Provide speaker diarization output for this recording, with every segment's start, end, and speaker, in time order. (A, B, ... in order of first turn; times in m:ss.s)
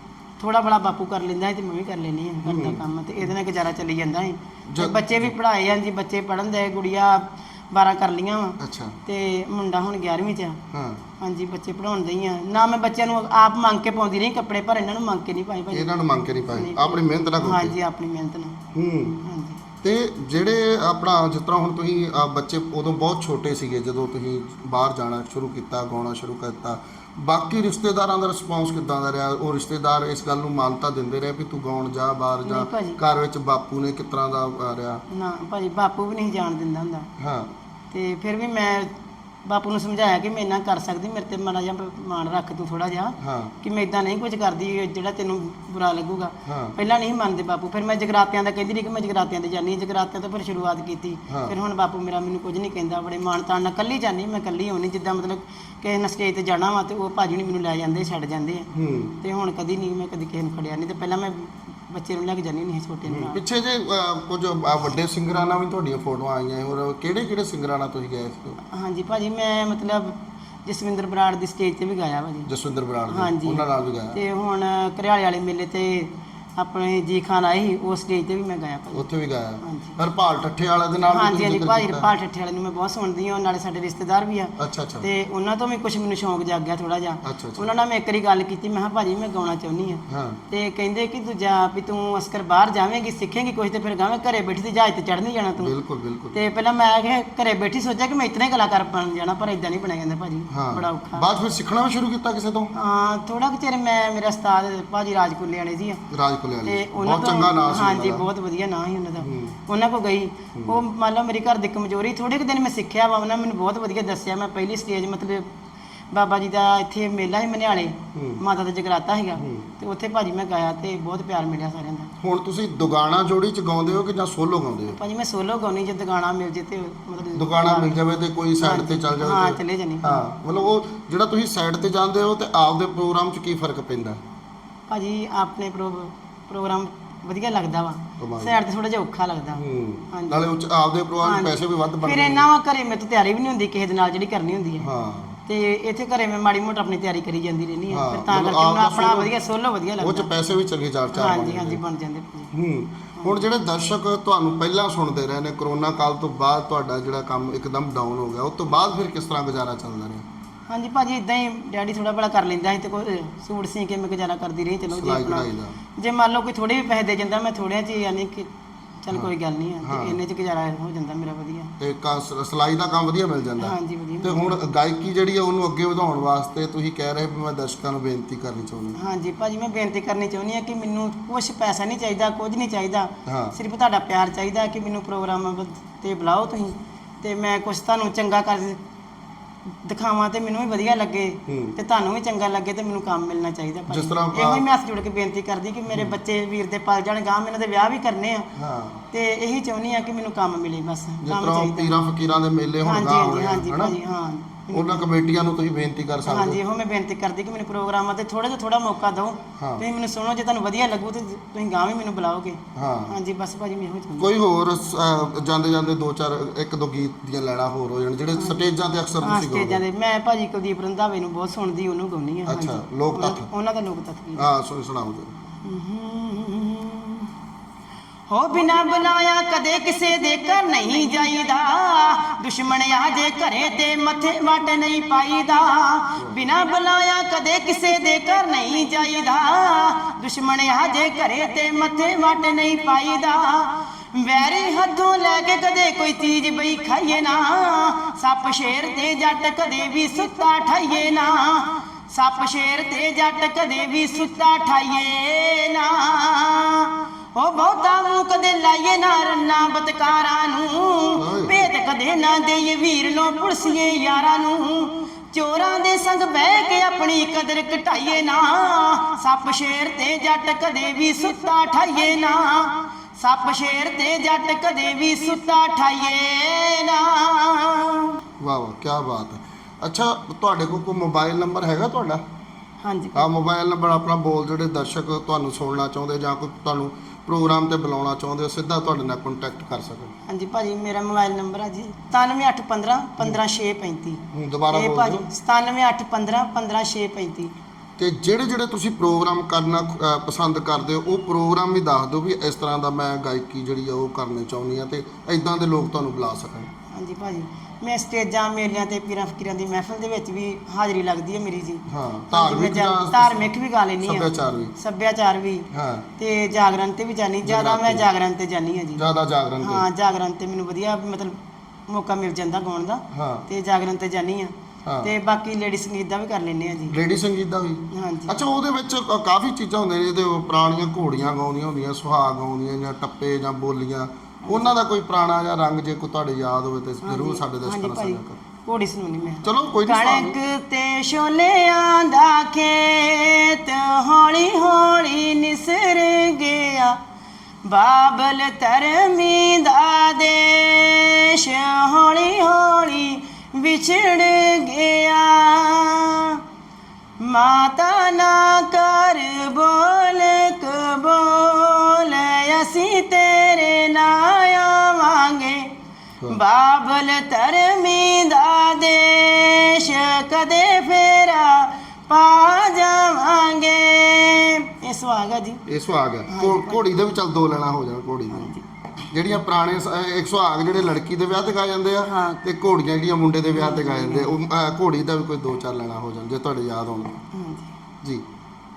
0:00.4-0:10.6 A
0:02.4-0:02.8 B
0:04.7-0:05.3 B
0:08.6-0:09.0 B
0:10.7-0:11.0 B
0:11.2-0:15.9 A
0:15.7-0:17.7 B
0:16.5-0:18.6 A
0:18.7-0:19.2 B
0:19.2-0:19.6 A
0:19.8-0:35.0 B
0:32.4-0:33.0 A
0:35.1-0:37.1 A
0:37.2-0:37.5 B
0:37.9-0:38.9 A
0:39.4-1:03.4 A
0:43.2-0:43.5 B
0:46.5-0:46.8 B
0:51.3-0:51.5 B
0:58.7-0:59.2 B
1:03.1-1:08.6 B
1:08.7-1:12.5 A
1:12.5-1:14.2 B
1:13.1-1:19.0 A
1:18.9-1:22.1 B
1:19.6-1:20.0 A
1:21.1-1:35.7 A
1:24.6-1:25.1 B
1:27.2-1:27.7 B
1:30.1-1:30.4 B
1:35.6-1:36.4 B
1:36.3-1:41.3 A
1:40.5-1:42.7 B
1:42.7-1:46.0 A
1:46.1-1:48.2 B
1:46.6-1:55.5 A
1:49.2-1:49.6 B
1:56.1-2:02.1 A
1:58.1-1:58.4 B
1:59.4-1:59.7 B
2:02.2-2:05.0 B
2:04.8-2:08.0 A
2:07.4-2:14.2 B
2:08.6-2:10.2 A
2:14.9-2:20.4 A
2:18.2-2:18.5 B
2:19.5-2:22.5 B
2:21.2-2:24.8 A
2:24.8-2:25.4 B
2:25.4-2:30.3 A
2:27.9-2:29.3 B
2:30.0-2:31.8 B
2:31.1-2:32.5 A
2:32.5-2:40.3 B
2:40.7-2:48.5 A
2:44.9-2:45.8 B
2:49.0-2:51.7 A
2:49.8-2:50.2 B
2:51.8-2:59.0 B
2:53.6-2:54.5 A
2:59.0-3:08.8 A
3:03.2-3:03.6 B
3:09.8-3:18.5 A
3:11.5-3:11.8 B
3:13.9-3:14.6 B
3:18.6-3:19.0 B
3:19.1-3:21.9 A
3:21.2-3:24.0 B
3:22.8-3:25.0 A
3:24.7-3:26.6 B
3:26.2-3:34.3 A
3:29.6-3:29.8 B
3:32.7-3:33.1 B
3:34.2-3:39.8 B
3:38.4-3:38.6 A
3:39.2-3:44.5 A
3:42.5-3:43.5 B
3:44.4-3:45.4 B
3:45.6-3:47.3 A
3:48.3-4:38.2 A
3:56.2-3:56.4 B
4:21.2-4:21.6 B
4:38.4-4:42.2 B
4:42.8-4:43.3 A
4:43.1-4:50.1 B
4:50.3-4:57.5 A
4:54.3-4:55.2 B
4:58.0-5:06.7 B
5:06.9-5:19.0 A
5:11.9-5:13.4 B
5:14.0-5:14.7 B
5:15.7-5:16.1 B
5:17.4-5:18.0 B
5:19.0-5:19.8 B
5:19.6-5:21.4 A
5:21.9-5:27.0 A
5:23.1-5:23.5 B
5:24.8-5:25.1 B
5:26.9-5:38.4 B
5:27.9-5:28.4 A
5:34.4-5:34.7 A
5:37.0-5:47.0 A
5:39.4-5:40.4 B
5:47.6-5:56.4 A
5:57.2-6:05.7 A
6:06.3-6:15.6 A
6:15.7-6:18.5 B
6:16.3-6:16.8 A
6:18.3-6:18.6 A
6:19.1-6:27.2 B
6:22.0-6:22.4 A
6:23.5-6:24.4 A
6:27.3-6:27.7 A